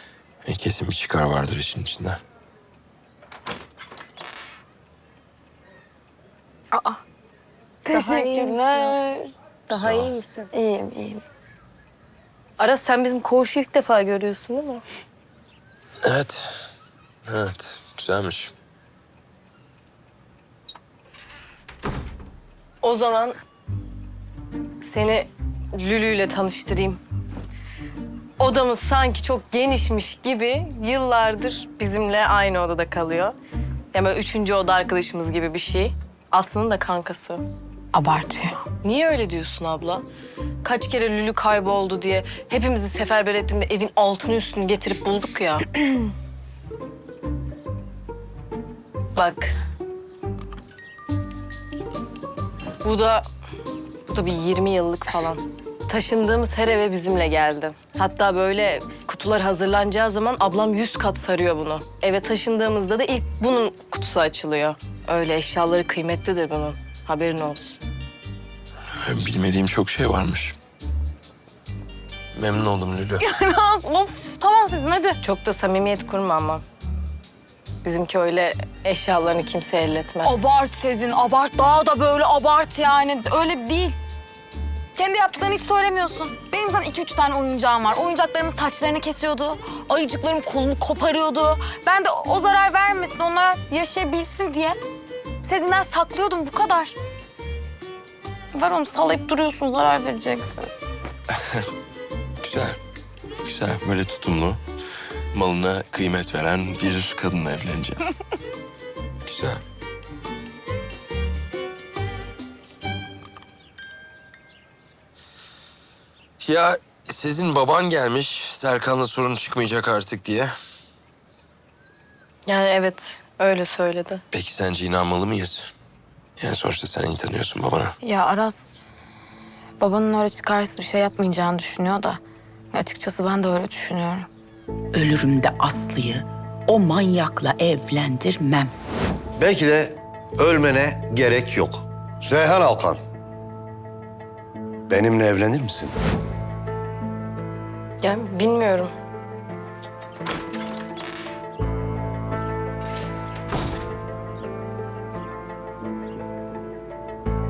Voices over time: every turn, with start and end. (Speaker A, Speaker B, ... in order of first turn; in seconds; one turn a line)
Speaker A: 0.5-2.2
Speaker B: 6.7-7.0
Speaker B: 7.8-9.3
Speaker C: 7.9-9.0
Speaker C: 9.7-10.5
Speaker A: 9.7-10.1
Speaker B: 10.5-11.2
Speaker C: 12.6-14.8
Speaker A: 16.0-16.7
Speaker A: 17.3-18.5
Speaker C: 22.8-23.4
Speaker C: 24.8-27.0
Speaker C: 28.4-33.4
Speaker C: 33.9-37.4
Speaker B: 37.9-38.6
Speaker C: 38.8-40.1
Speaker C: 40.6-46.0
Speaker C: 49.2-49.5
Speaker C: 52.8-53.3
Speaker C: 54.1-67.8
Speaker A: 69.0-70.6
Speaker A: 72.3-73.2
Speaker B: 73.2-75.2
Speaker C: 75.2-76.6
Speaker C: 77.8-80.5
Speaker B: 80.2-84.0
Speaker B: 85.0-94.8
Speaker B: 95.4-97.0
Speaker B: 98.5-100.7
Speaker A: 102.4-102.8
Speaker A: 103.5-104.6
Speaker A: 105.3-108.0
Speaker A: 109.3-109.6
Speaker A: 116.4-120.5
Speaker C: 122.5-124.2
Speaker A: 124.3-125.7
Speaker A: 126.4-128.0
Speaker B: 128.0-128.9
Speaker B: 129.8-132.2
Speaker B: 132.7-134.3
Speaker D: 134.9-138.7
Speaker E: 139.4-143.0
Speaker E: 144.9-145.9
Speaker C: 148.0-148.9